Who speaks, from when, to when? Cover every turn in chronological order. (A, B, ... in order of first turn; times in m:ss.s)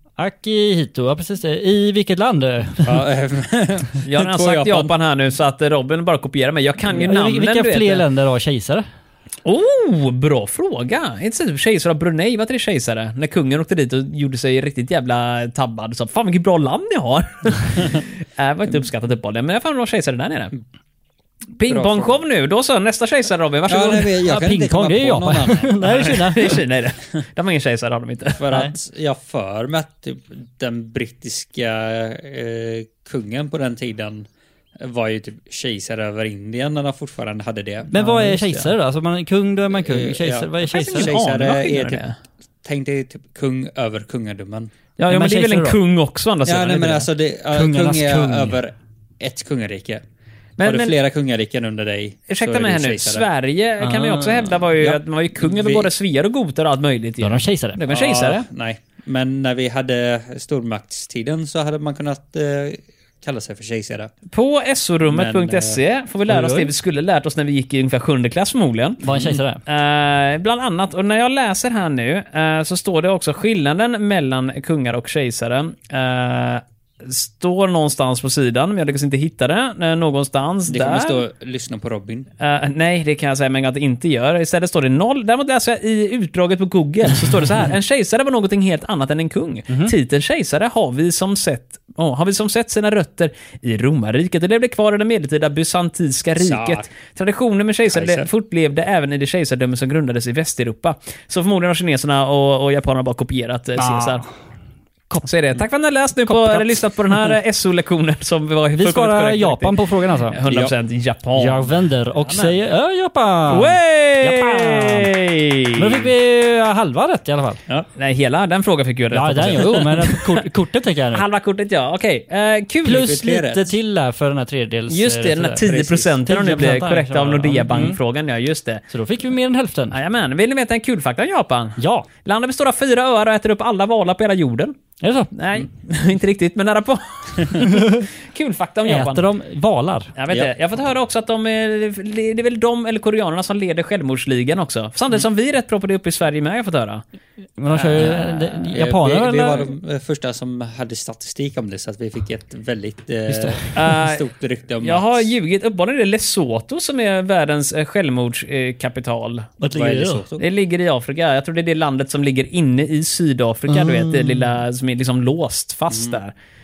0:00.2-0:03.0 A
0:02.8-0:04.9 B
0:04.0-0:08.0 C
0:06.9-0:08.8 A
0:09.4-0:20.5 C
0:21.6-0:24.2 C
0:21.7-0:22.2 B
0:23.7-0:25.7 B
0:24.2-0:26.6 A
0:25.8-0:28.5 C
0:28.4-0:37.9 B
0:37.9-0:41.2 A
0:37.9-0:38.7 C
0:39.7-0:42.0 B
0:40.7-0:42.2 C
0:42.6-0:44.7 B
0:45.0-0:47.1 C
0:45.1-0:45.8 A
0:46.4-0:50.0 B
0:47.5-0:48.6 A
0:50.6-0:50.9 C
0:50.6-0:53.3 B
0:52.3-0:58.5 C
0:53.8-0:54.6 A
0:54.8-0:55.9 B
0:57.2-0:58.0 A
0:57.9-1:04.1 B
1:04.3-1:09.0 C
1:05.1-1:05.8 B
1:06.3-1:06.7 A
1:09.0-1:09.6 A
1:09.1-1:09.4 B
1:09.7-1:21.2 C
1:20.7-1:22.3 B
1:22.4-1:44.2 C
1:36.4-1:36.9 B
1:37.9-1:38.3 B
1:43.8-1:44.2 A
1:45.2-1:49.8 C
1:46.2-1:47.4 A
1:48.7-1:50.4 A
1:50.3-1:52.6 C
1:50.5-1:50.7 B
1:51.4-1:55.1 A
1:53.5-1:56.1 C
1:55.8-1:57.6 A
1:58.0-2:00.4 C
1:59.1-2:01.2 A
2:01.1-2:03.1 C
2:02.8-2:05.7 A
2:02.9-2:03.7 B
2:04.9-2:08.8 C
2:05.6-2:06.2 B
2:06.2-2:08.0 A
2:08.9-2:10.0 A
2:09.9-2:14.8 C
2:11.8-2:12.1 A
2:15.0-2:15.3 A
2:15.3-2:19.2 C
2:17.7-2:18.1 A
2:18.9-2:20.1 A
2:20.2-2:27.0 C
2:27.6-2:29.7 A
2:27.7-2:28.5 C
2:28.0-2:35.3 B
2:33.3-2:33.7 A
2:33.7-2:34.2 C
2:34.8-2:39.5 C
2:39.6-2:40.2 A
2:39.7-2:40.4 B
2:40.4-2:46.3 C
2:43.7-2:44.5 A
2:45.9-2:46.2 B